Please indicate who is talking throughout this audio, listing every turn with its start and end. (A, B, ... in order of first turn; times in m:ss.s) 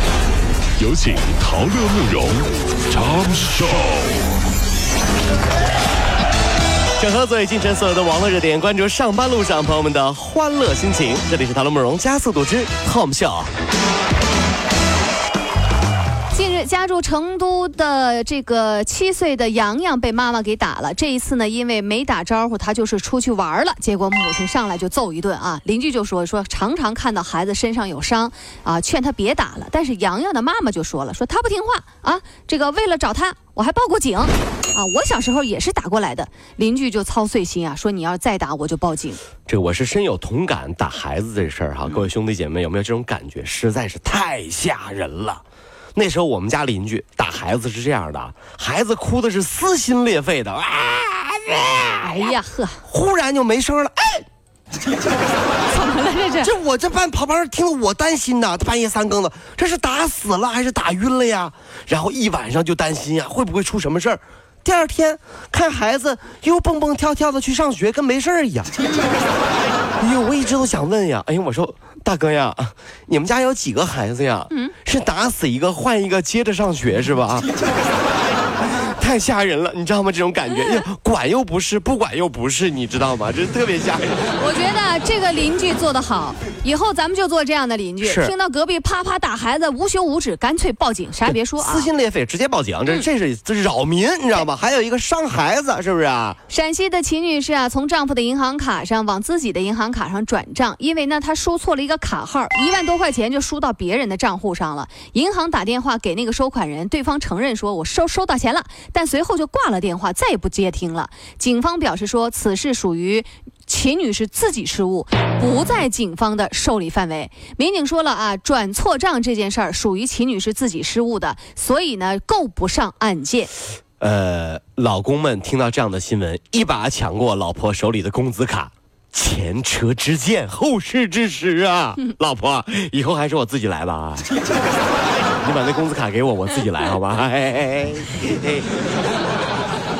0:00.8-0:04.2 A
0:07.0-0:13.5 B
0:16.3-0:39.2 C
0:39.5-0:45.4 B
0:45.9-0:54.2 B
0:52.0-0:52.8 C
0:55.7-0:56.5 C
0:56.4-1:08.7 B
1:08.8-1:09.2 C
1:10.0-1:17.5 B
1:18.6-1:24.3 B
1:24.4-1:31.9 C
1:28.0-1:28.3 B
1:31.2-1:36.4 B
1:36.5-2:03.5 C
2:04.0-2:14.3 B
2:15.4-2:18.7 B